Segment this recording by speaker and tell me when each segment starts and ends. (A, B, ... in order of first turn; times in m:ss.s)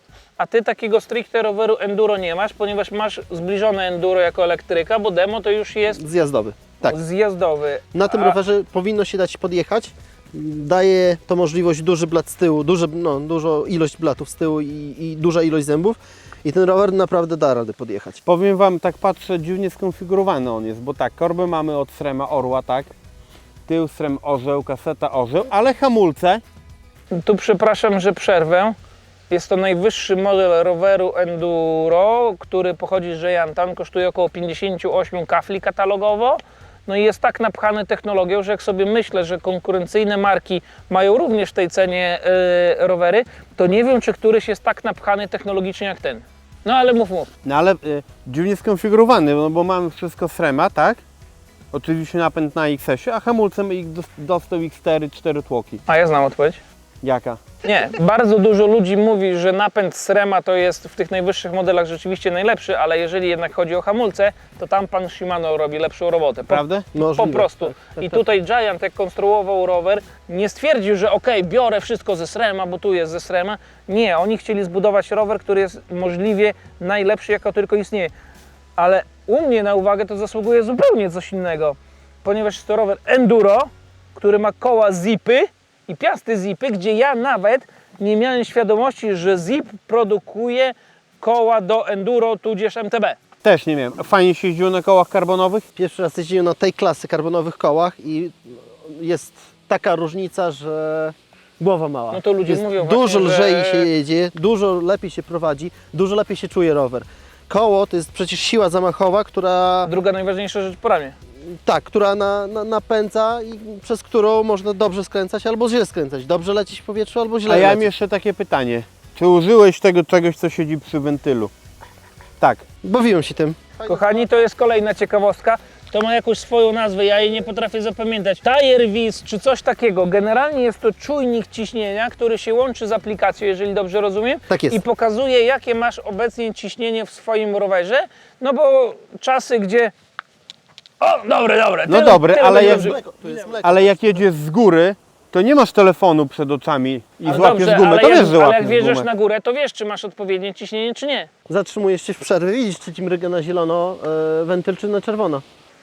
0:00.4-0:06.0 A
0:05.9-0:07.0 B
0:06.9-0:08.4 A
0:07.9-0:18.2 B
0:18.3-0:22.9 C
0:23.7-0:26.4 C
0:27.1-0:28.8 A
0:29.3-0:47.3 A
0:47.4-0:51.0 C
0:51.7-0:55.8 C
0:55.9-0:56.6 A
0:57.0-0:57.4 C
0:57.6-1:18.1 A
1:06.5-1:06.9 C
1:06.9-1:08.2 B
1:18.8-1:33.2 A
1:33.4-1:35.6 C
1:35.8-1:49.9 B
1:42.1-1:43.9 A
1:49.8-1:51.1 A
1:51.6-1:57.9 B
1:57.5-2:01.5 C
2:02.8-2:04.3 B
2:03.9-2:19.9 A
2:14.5-2:14.8 B
2:21.0-2:23.0 A
2:21.9-2:23.0 C
2:22.4-2:24.2 B
2:23.6-2:29.1 C
2:27.2-2:31.3 A
2:31.5-2:35.4 B